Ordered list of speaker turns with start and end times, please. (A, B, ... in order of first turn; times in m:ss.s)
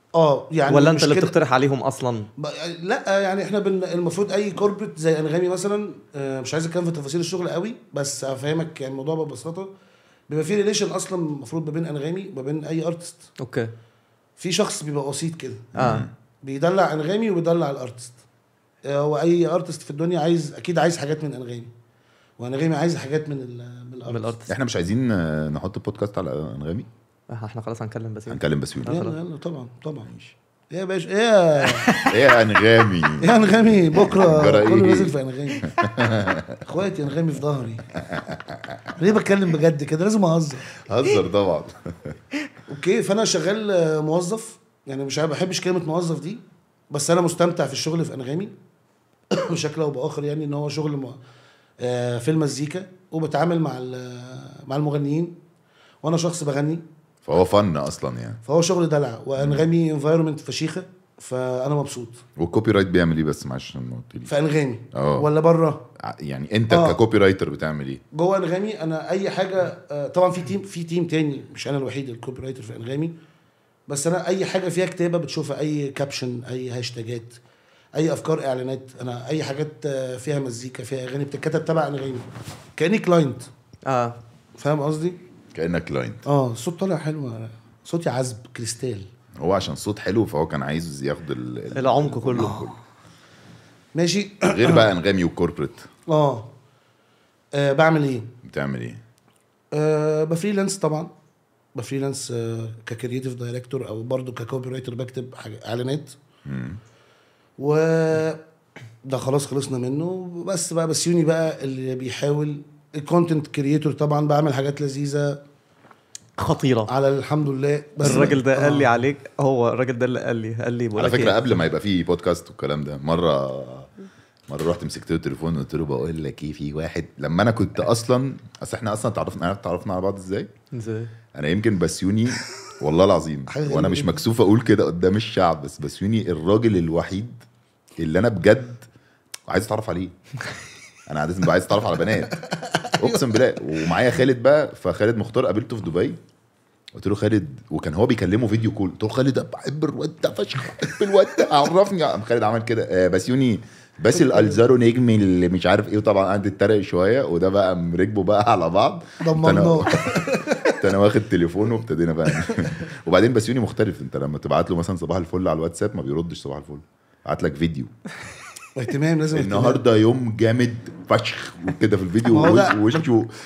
0:00.1-0:01.3 A
0:00.7-0:02.3 B
0:02.4-0:09.7 A
0:10.3-0:13.3 A
0:13.4-0:13.7 B
0:14.4-0:15.7 A
0:15.8-0:16.1 C
0:15.8-0:16.1 B
0:16.4-0:18.1 A
0:18.8-0:21.7 A
0:22.4-0:24.3 A
0:24.1-0:24.5 B
0:24.5-0:26.9 C
0:27.3-0:29.1 B
0:28.3-0:29.1 C
0:28.9-0:30.1 A
0:30.1-0:30.4 C
0:30.7-0:31.9 A
0:31.7-0:32.2 B
0:32.0-0:33.3 C
0:33.2-0:35.7 A
0:33.9-0:36.6 C
0:36.6-0:37.9 A
0:37.9-0:38.8 C
0:39.0-0:40.7 A
0:40.8-0:42.2 C
0:42.7-0:48.6 A
0:49.3-0:51.2 A
0:51.8-0:55.4 A
0:56.0-0:56.8 A
0:57.2-0:58.4 C
0:58.4-1:02.2 A
0:59.4-0:59.7 C
1:02.4-1:04.3 C
1:04.3-1:05.9 A
1:04.9-1:05.3 C
1:06.0-1:08.0 C
1:06.7-1:07.0 A
1:08.1-1:13.2 A
1:13.9-1:17.4 A
1:17.9-1:22.2 A
1:22.8-1:23.5 A
1:23.8-1:24.2 B
1:24.6-1:25.2 A
1:25.5-1:26.2 C
1:26.2-1:29.1 A
1:29.4-1:32.8 C
1:31.8-1:32.7 B
1:34.0-1:34.9 A
1:34.4-1:35.9 C
1:36.1-1:36.5 A
1:37.5-1:38.3 A
1:38.4-1:39.0 C
1:39.7-1:41.1 A
1:41.8-1:46.1 A
1:46.4-1:46.8 C
1:47.6-1:48.4 A
1:49.0-1:55.4 A
1:56.4-1:56.9 B
1:56.9-1:58.9 A
1:58.0-2:01.6 B
1:58.0-1:58.4 C
2:01.0-2:03.9 C
2:04.5-2:10.5 C
2:10.7-2:11.1 B
2:11.3-2:17.4 C
2:13.5-2:14.2 A
2:18.0-2:18.8 C
2:19.5-2:20.2 C
2:21.1-2:22.4 C
2:22.7-2:23.3 A
2:23.0-2:26.2 C
2:26.9-2:47.9 C
2:34.3-2:34.6 A
2:39.2-2:40.8 A
2:48.8-2:49.8 A
2:49.3-2:53.3 C
2:52.3-2:53.1 A